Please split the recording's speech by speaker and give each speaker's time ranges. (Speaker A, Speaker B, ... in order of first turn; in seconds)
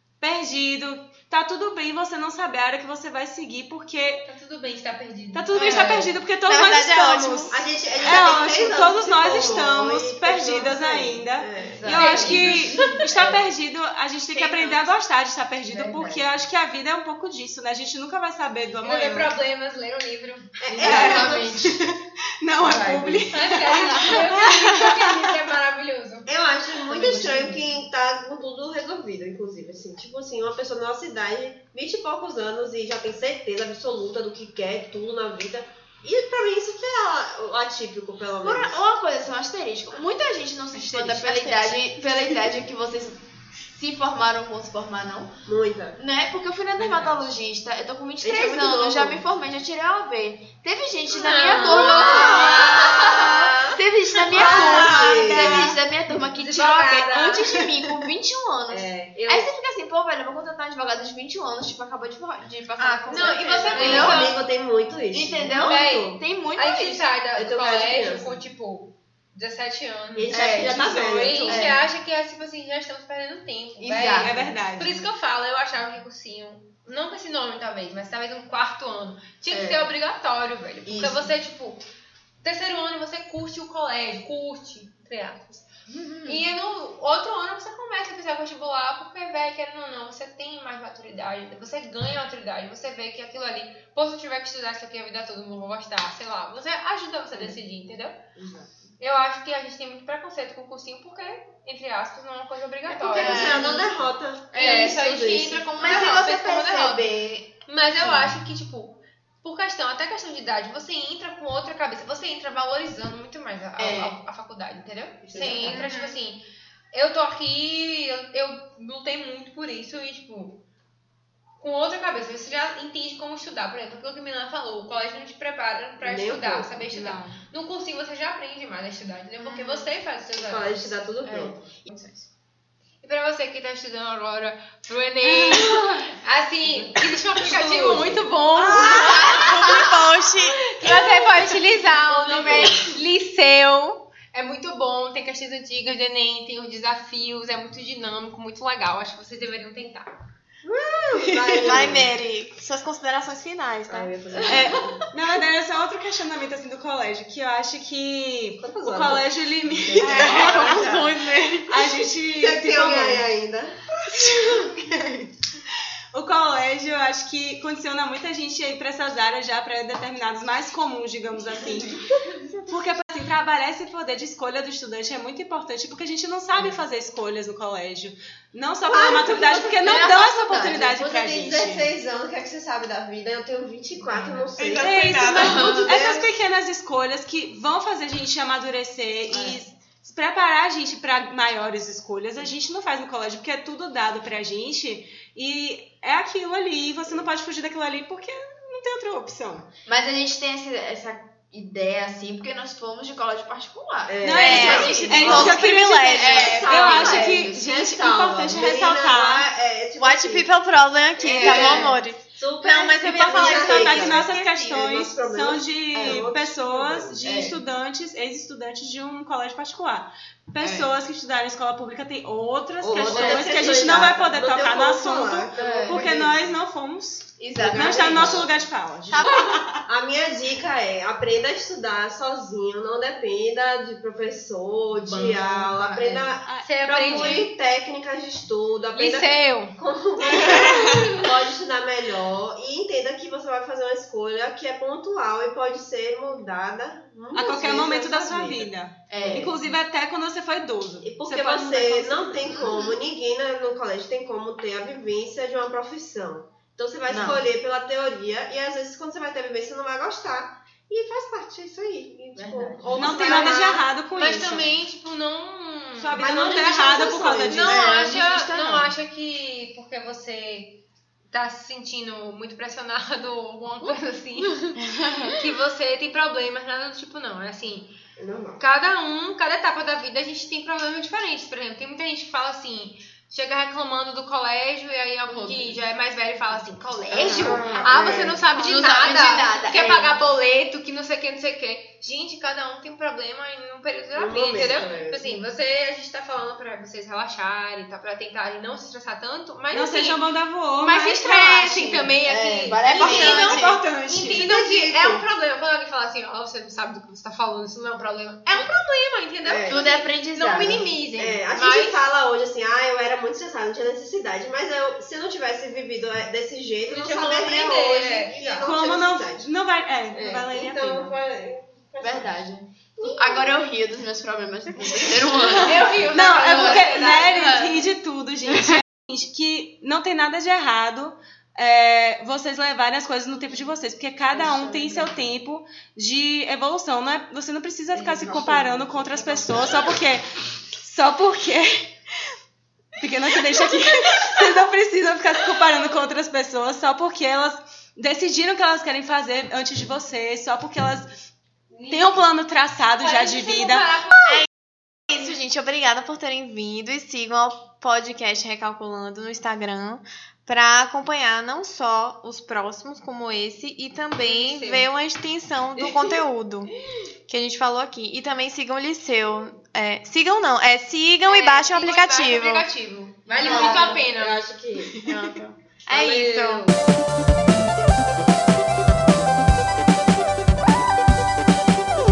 Speaker A: 0.2-4.3, 5.3-19.3, 20.8-25.2, 46.8-47.2, 54.2-55.7, 57.5-57.9, 70.6-71.7, 74.2-75.0, 126.9-127.4, 135.3-136.0, 154.5-161.1, 161.7-163.3, 166.1-172.1, 172.7-181.9, 184.2-199.7, 204.2-209.5, 213.0-229.8, 236.4-237.4, 247.3-252.7, 263.0-264.7, 266.0-268.0, 299.7-302.1, 302.9-304.5, 318.6-321.1, 326.0-341.9, 343.0-351.1, 351.9-354.0
Speaker B: 4.3-6.1, 11.9-13.1, 18.8-21.6, 22.7-27.6, 51.1-53.4, 63.1-64.4, 65.5-81.8, 82.4-85.7, 86.3-98.2, 99.0-107.1, 107.7-116.4, 116.9-120.6, 121.6-130.9, 133.0-150.1, 236.6-237.5, 238.9-239.8, 240.3-241.1, 262.9-266.4, 267.4-274.8, 275.3-277.9, 278.6-300.2, 300.8-312.0, 316.9-318.7, 325.6-327.8, 351.7-352.2, 353.0-354.4, 364.2-364.9, 371.2-374.4
Speaker C: 5.6-5.9, 11.6-13.3, 15.7-16.2, 20.8-21.5, 26.9-27.6, 38.4-45.4, 46.0-64.4, 65.1-67.1, 70.3-70.8, 71.5-71.8, 73.8-74.5, 79.5-79.9, 80.9-81.3, 85.9-86.4, 103.1-103.9, 104.5-108.3, 113.8-114.2, 115.3-115.9, 131.3-132.1, 179.8-180.9, 185.4-185.9, 199.9-207.6, 211.2-212.0, 215.9-216.3, 217.2-217.6, 220.6-220.9, 223.1-224.1, 225.6-226.3, 227.4-228.5, 235.0-236.3, 249.1-249.6, 257.1-257.4, 262.4-263.1, 267.7-268.9, 274.9-275.3, 285.3-285.7, 287.1-290.2, 302.2-303.6, 309.6-310.9, 322.0-327.7, 373.3-374.0
Speaker D: 6.5-7.6, 14.3-14.9, 40.7-42.6, 62.8-63.4, 103.2-103.6, 115.7-116.2, 138.7-141.2, 151.5-154.1, 160.0-161.9, 164.1-164.7, 184.6-185.8, 204.3-206.9, 210.0-214.8, 229.1-229.5, 303.2-303.8, 355.1-366.7, 367.3-372.7, 375.0-376.7
Speaker E: 7.5-12.3, 20.6-21.8, 26.3-38.8, 45.5-46.0, 48.2-49.3, 51.5-53.7, 54.3-55.8, 56.3-57.5, 58.7-59.5, 63.2-66.2, 67.3-68.4, 70.2-71.8, 98.4-98.7, 102.9-106.2, 115.3-115.9, 126.0-126.8, 130.4-131.7, 137.4-138.2, 141.8-143.0, 150.6-152.1, 153.9-155.0, 158.6-161.1, 162.3-164.8, 178.9-186.3, 204.1-210.5, 211.2-217.2, 222.8-226.6, 227.6-228.5, 229.8-249.6, 251.0-263.8, 266.1-268.1, 278.2-278.6, 287.3-288.5, 294.2-295.4, 304.3-305.2, 309.5-309.8, 311.2-319.5, 320.1-322.4, 323.0-323.6, 334.3-335.1, 337.9-340.0, 373.4-375.0, 375.9-376.8